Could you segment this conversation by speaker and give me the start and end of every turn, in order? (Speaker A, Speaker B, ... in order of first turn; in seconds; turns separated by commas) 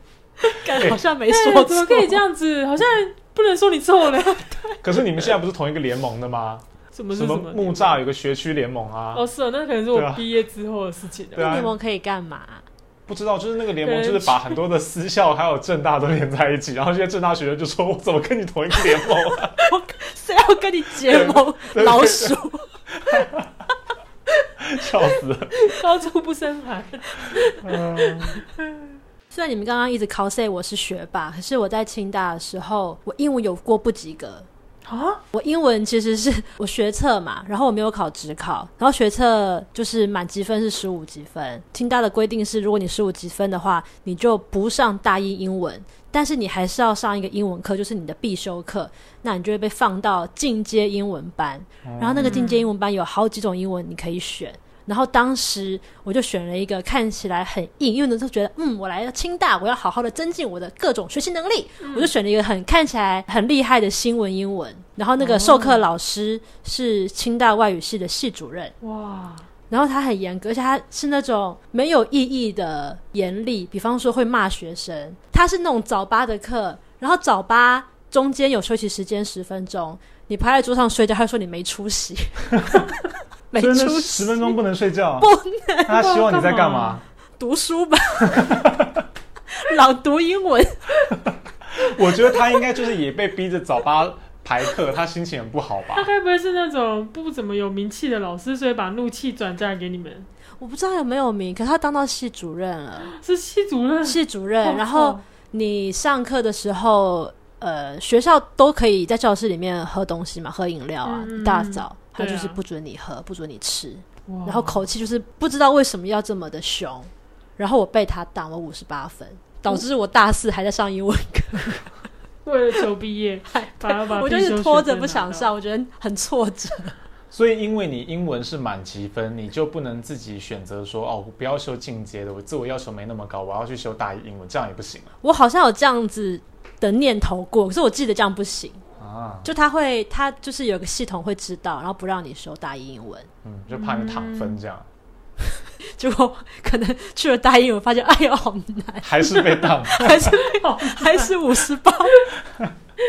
Speaker A: 0.4-2.2, Speaker B: 0.7-1.0, Speaker C: 1.3-4.7, Speaker A: 4.3-4.8, Speaker B: 4.8-9.3, Speaker C: 6.9-8.0, Speaker C: 9.1-11.6, Speaker B: 9.9-10.2, Speaker B: 11.3-11.8, Speaker A: 11.4-12.6, Speaker B: 13.1-19.6, Speaker C: 13.8-14.6, Speaker A: 19.6-22.7, Speaker B: 21.1-22.4, Speaker B: 23.0-23.6, Speaker B: 24.6-25.6, Speaker C: 25.6-28.6, Speaker B: 27.6-28.4, Speaker A: 29.3-34.5, Speaker C: 34.9-35.2, Speaker A: 35.3-68.7, Speaker B: 51.8-52.4, Speaker C: 52.2-52.7, Speaker C: 61.8-62.1, Speaker C: 65.2-65.8, Speaker C: 68.8-69.5, Speaker A: 69.7-82.9, Speaker A: 83.5-84.5, Speaker B: 83.6-85.3, Speaker A: 85.2-86.0, Speaker B: 85.9-87.0, Speaker C: 85.9-87.0, Speaker A: 87.4-88.6, Speaker B: 88.3-89.0, Speaker A: 89.5-90.9, Speaker B: 91.7-96.1, Speaker C: 95.9-100.3, Speaker A: 100.6-103.1, Speaker C: 103.1-105.2, Speaker A: 104.0-121.9, Speaker C: 111.0-112.6, Speaker C: 114.3-114.8, Speaker C: 122.4-125.5, Speaker A: 123.5-126.9, Speaker B: 127.3-135.1, Speaker A: 135.2-138.8, Speaker B: 139.0-139.5, Speaker A: 139.4-143.3, Speaker B: 143.4-144.9, Speaker C: 143.7-144.6, Speaker A: 145.8-152.3, Speaker B: 149.0-150.3, Speaker C: 150.4-151.7